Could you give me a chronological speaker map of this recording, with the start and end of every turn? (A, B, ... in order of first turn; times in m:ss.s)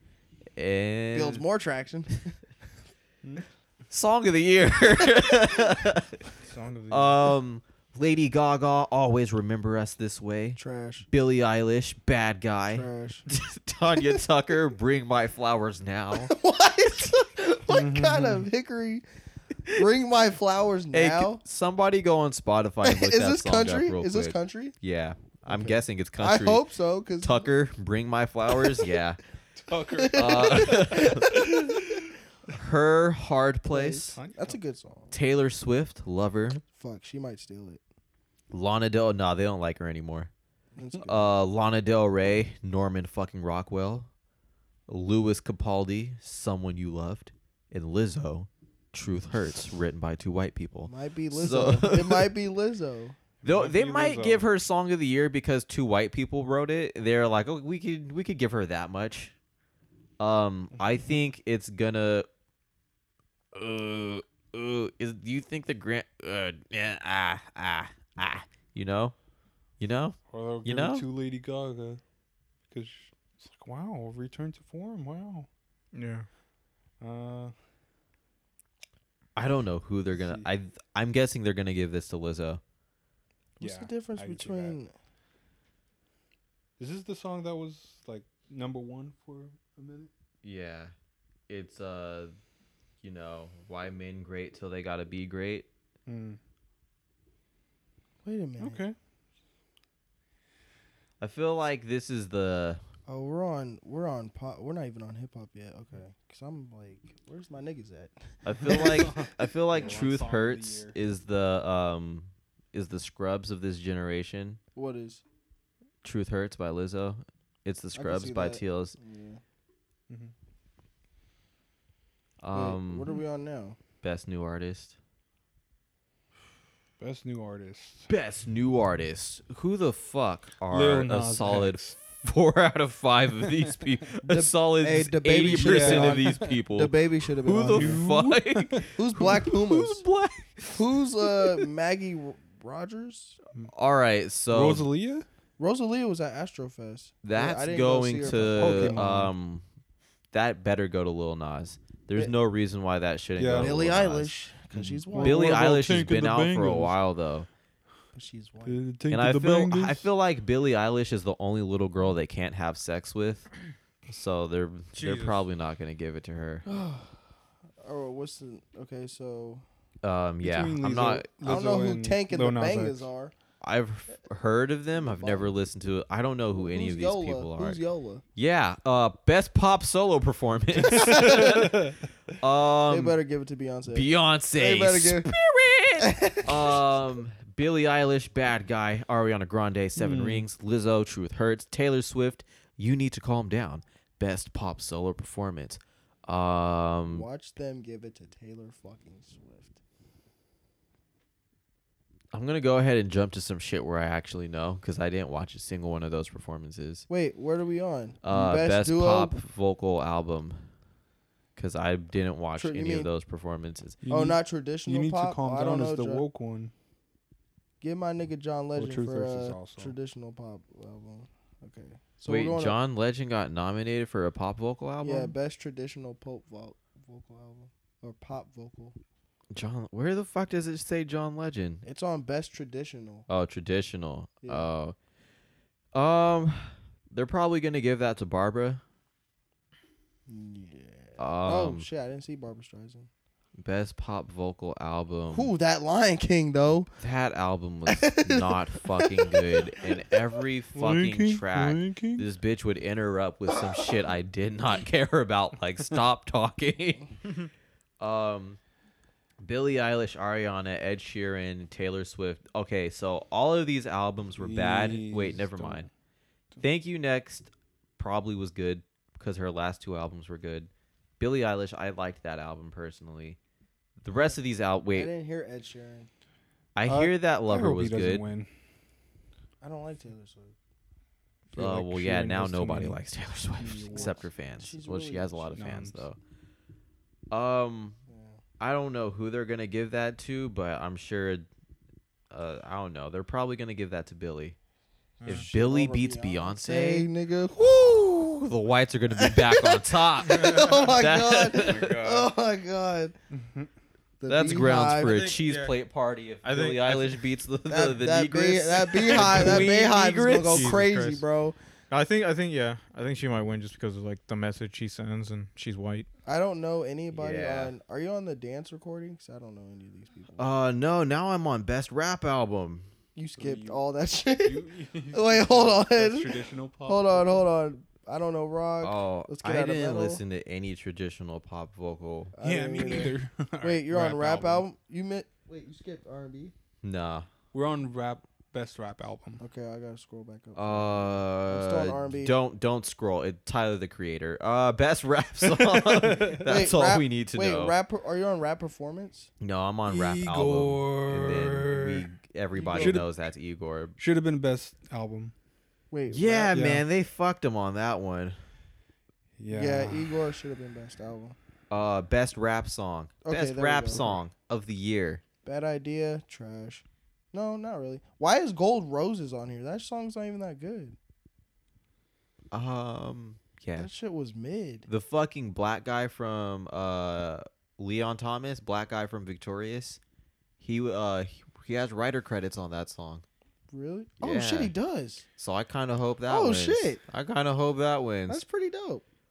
0:00.5-0:01.4 A
0:01.1-0:02.4 B
0:03.9-0:06.2 A
0:06.4-0:07.3 C
0:06.9-0:10.6 A
0:10.6-0:11.1 B
0:11.1-0:16.3 A
0:12.7-0:13.3 B
0:16.1-0:19.0 B
0:17.7-0:18.5 D
0:19.7-0:21.4 B
0:20.9-0:26.6 A
0:22.8-0:24.8 B
0:25.5-0:27.5 B
0:27.2-0:29.2 A
0:29.6-0:32.0 D
0:29.9-0:32.0 B
0:30.1-0:31.6 A
0:32.5-0:34.2 A
0:33.7-0:35.1 B
0:34.2-0:34.6 D
0:35.1-0:36.6 A
0:36.7-0:37.8 B
0:38.5-0:40.3 A
0:40.7-0:41.3 B
0:41.0-0:44.1 A
0:44.9-0:52.3 A
0:50.9-0:53.2 B
0:53.4-0:54.4 D
0:53.4-0:59.3 A
1:00.2-1:02.3 A
1:03.5-1:09.1 A
1:09.8-1:11.1 A
1:10.3-1:12.0 D
1:12.7-1:15.5 D
1:15.9-1:16.3 C
1:17.0-1:17.5 D
1:19.3-1:22.6 A
1:20.1-1:20.5 D
1:23.6-1:24.8 D
1:23.6-1:24.9 B
1:26.8-1:30.1 D
1:30.4-1:30.9 A
1:31.5-1:32.3 A
1:33.0-1:35.7 A
1:36.1-1:36.4 D
1:38.2-1:38.8 B
1:38.6-1:39.0 D
1:41.2-1:42.8 A
1:43.1-1:49.2 B
1:48.4-1:54.6 A
1:48.6-1:51.0 D
1:54.7-1:55.2 B
1:56.0-1:59.0 A
1:57.9-1:59.4 B
2:02.4-2:03.1 A
2:02.5-2:03.8 B
2:04.0-2:05.0 A
2:07.0-2:08.1 D
2:08.1-2:21.6 A
2:10.7-2:12.0 D
2:14.2-2:18.0 B
2:15.4-2:16.6 D
2:17.6-2:19.3 D
2:18.9-2:20.0 B
2:20.7-2:23.4 B
2:23.7-2:24.9 A
2:24.5-2:25.3 D
2:25.6-2:29.0 B
2:27.2-2:29.6 A
2:28.2-2:29.3 D
2:30.3-2:37.5 A
2:33.4-2:33.7 D
2:33.5-2:35.6 B
2:35.1-2:36.9 D
2:38.1-2:38.8 B
2:38.6-2:40.0 D
2:39.1-2:43.5 A
2:44.1-2:46.6 A
2:44.9-2:45.4 C
2:46.6-2:47.2 B
2:47.8-2:49.6 B
2:50.0-2:51.3 A
2:50.4-2:53.1 D
2:51.4-2:53.3 B
2:53.6-2:57.8 A
2:54.9-2:55.5 B
2:56.5-2:58.2 B
2:58.4-3:03.2 A
3:00.8-3:01.8 B
3:01.4-3:01.9 D
3:02.9-3:05.3 B
3:03.9-3:17.3 A
3:06.0-3:06.8 B
3:10.0-3:10.4 D
3:17.1-3:19.7 B
3:22.3-3:27.0 A
3:27.1-3:29.4 B
3:28.2-3:30.7 A
3:31.6-3:34.0 A
3:32.6-3:33.1 B
3:34.0-3:36.7 D
3:34.1-3:36.2 B
3:37.8-3:42.8 B
3:38.8-3:39.9 D
3:42.3-3:45.3 A
3:45.0-3:49.0 B
3:49.5-3:51.8 A
3:51.8-3:53.3 B
3:53.3-3:55.0 A
3:54.4-3:54.7 B
3:55.9-3:58.8 A
4:00.3-4:03.1 B
4:01.2-4:01.9 A
4:03.6-4:05.5 A
4:05.3-4:06.9 B
4:07.0-4:17.1 A
4:07.8-4:10.2 B
4:10.7-4:12.2 D
4:18.0-4:18.6 A
4:19.4-4:25.9 A
4:24.4-4:25.9 D
4:26.6-4:33.4 A
4:34.0-4:35.1 A
4:34.9-4:36.1 B
4:36.7-4:38.2 A
4:36.8-4:38.5 D
4:39.6-4:40.5 B
4:41.5-4:46.2 A
4:41.5-4:43.0 D
4:43.6-4:44.3 D
4:43.9-4:45.5 B
4:45.5-4:46.0 D
4:47.3-4:48.0 A
4:48.1-4:48.4 B
4:48.6-4:51.5 A
4:52.3-4:54.6 A
4:55.2-4:55.4 C
4:55.2-5:02.3 A
4:55.3-4:58.1 B
4:59.1-5:03.1 B
5:00.2-5:00.8 C
5:03.3-5:03.7 D
5:04.2-5:05.2 B
5:04.3-5:10.8 A
5:05.0-5:05.7 C
5:06.4-5:07.2 C
5:07.7-5:11.6 B
5:09.1-5:11.2 C
5:11.9-5:16.1 C
5:16.2-5:20.5 B
5:17.1-5:17.7 A
5:20.4-5:22.9 A
5:23.1-5:30.2 B
5:23.4-5:23.8 D
5:24.4-5:27.4 D
5:28.8-5:32.3 A
5:32.3-5:36.5 B
5:32.4-5:34.6 D
5:36.8-5:37.3 A
5:37.5-5:39.4 D
5:39.4-5:42.3 B
5:40.5-5:47.7 A
5:45.6-5:46.5 D
5:46.3-5:49.3 B
5:49.4-5:54.0 A
5:49.8-5:52.0 D
5:52.5-5:53.0 B
5:52.7-5:53.0 D
5:54.0-5:55.3 D
5:55.9-5:56.6 B
5:56.1-5:58.4 A
5:56.5-5:56.8 D
5:59.4-6:00.1 D
5:59.5-6:01.4 B
6:01.7-6:05.2 A
6:03.2-6:04.1 B
6:05.4-6:11.0 B
6:12.5-6:13.9 A
6:13.8-6:14.9 B
6:14.9-6:20.0 A
6:20.6-6:23.2 A
6:23.7-6:25.2 B
6:24.2-6:24.7 A
6:25.4-6:28.4 A
6:26.3-6:27.0 B
6:28.3-6:29.0 B